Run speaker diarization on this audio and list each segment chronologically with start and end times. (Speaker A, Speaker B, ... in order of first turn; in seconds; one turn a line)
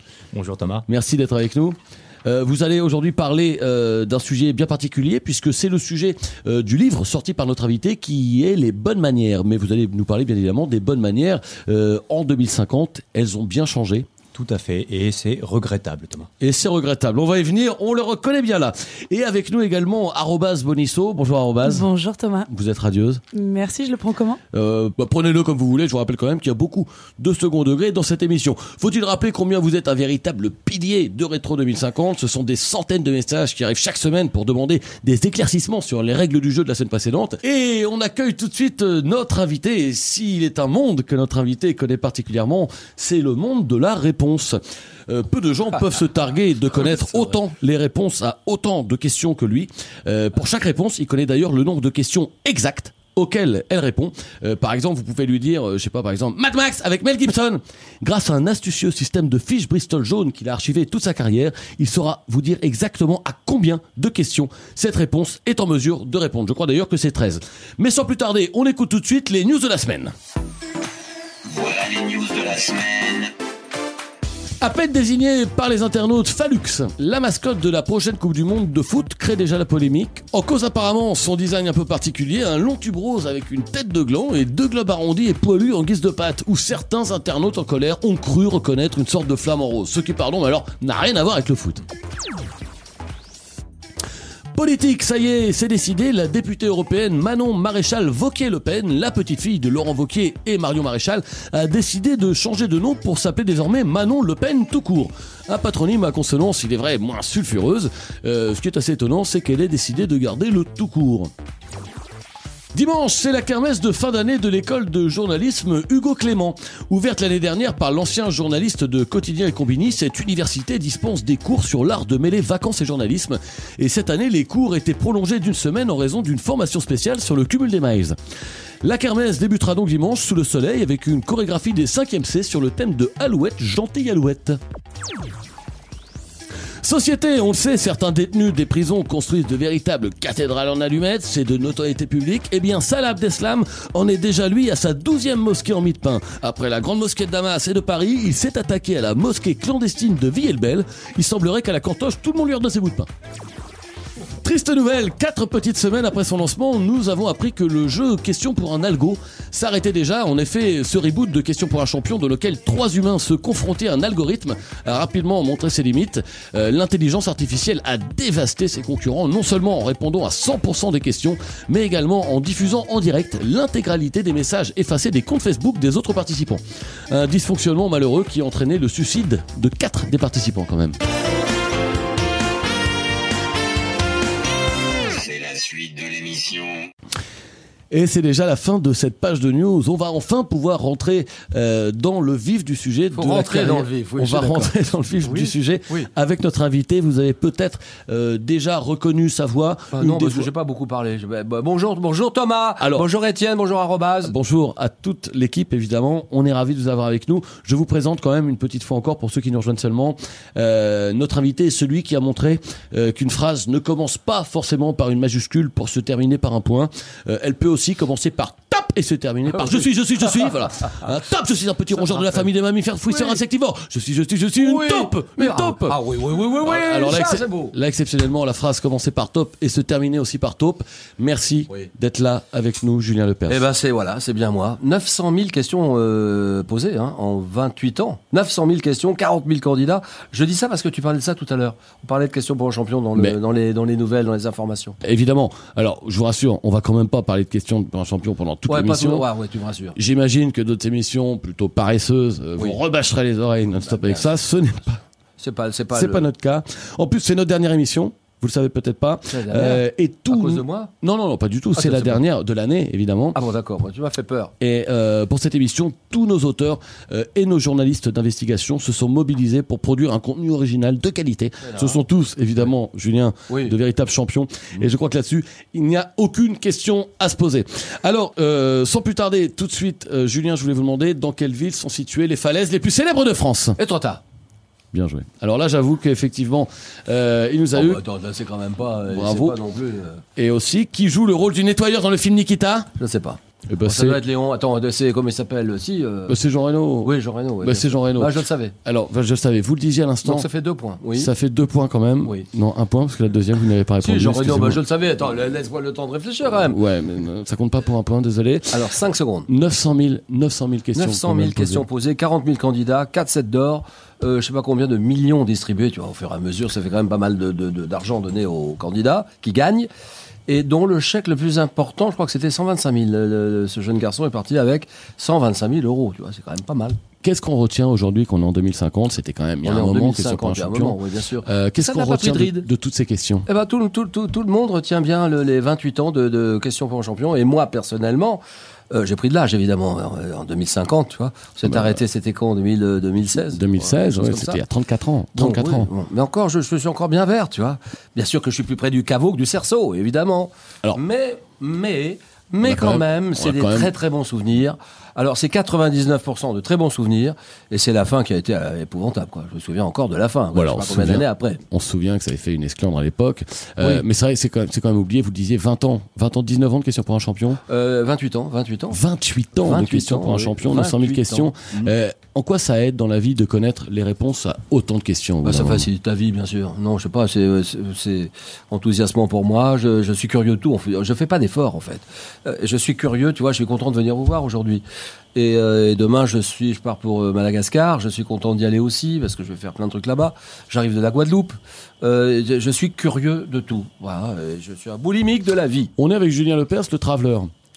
Speaker A: 0.3-0.8
Speaker B: 0.9-14.1
Speaker A: 14.3-16.3
Speaker B: 16.4-21.9
Speaker C: 21.6-22.5
Speaker B: 22.5-23.2
Speaker C: 23.3-24.4
Speaker B: 24.5-70.1
Speaker D: 71.5-73.3
Speaker B: 74.6-91.8
Speaker B: 94.5-111.3
Speaker B: 112.7-128.2
Speaker B: 128.8-134.6
Speaker B: 136.8-153.1
Speaker B: 154.4-181.0
Speaker D: 185.1-186.9
Speaker B: 187.9-200.5
Speaker E: 193.1-196.1
Speaker E: 199.9-204.3
Speaker B: 202.8-203.1
Speaker B: 204.2-226.0
Speaker E: 219.6-220.5
Speaker E: 222.0-222.4
Speaker E: 223.1-223.4
Speaker E: 224.6-227.7
Speaker B: 226.6-233.6
Speaker E: 233.5-245.0
Speaker B: 245.0-249.2
Speaker E: 248.7-249.9
Speaker B: 249.9-255.0
Speaker E: 253.9-254.2
Speaker E: 255.4-256.3
Speaker B: 255.9-263.4
Speaker E: 259.3-260.9
Speaker E: 261.7-262.2
Speaker E: 263.3-264.5
Speaker B: 264.6-283.8
Speaker E: 271.6-272.0
Speaker E: 273.5-273.7
Speaker E: 283.8-284.2
Speaker B: 284.9-288.0
Speaker E: 287.7-290.2
Speaker B: 289.1-289.6
Speaker B: 290.4-292.9
Speaker E: 293.0-296.3
Speaker B: 293.7-294.2
Speaker B: 296.3-297.1
Speaker E: 297.0-298.7
Speaker B: 297.6-300.4
Speaker E: 300.2-301.3
Speaker B: 301.1-304.8
Speaker E: 304.0-306.8
Speaker B: 306.6-308.8
Speaker E: 308.7-309.5
Speaker B: 309.5-311.8
Speaker E: 310.9-319.9
Speaker E: 320.5-327.0
Speaker B: 327.2-333.5
Speaker E: 329.6-332.7
Speaker E: 333.5-344.6
Speaker B: 341.6-342.0
Speaker B: 343.5-345.9
Speaker E: 345.3-361.6
Speaker B: 352.6-353.9
Speaker B: 360.5-367.6
Speaker E: 367.7-369.0
Speaker B: 368.9-375.9
Speaker E: 369.6-371.9
Speaker E: 375.4-384.8
Speaker E: 385.3-395.9
Speaker B: 396.0-397.5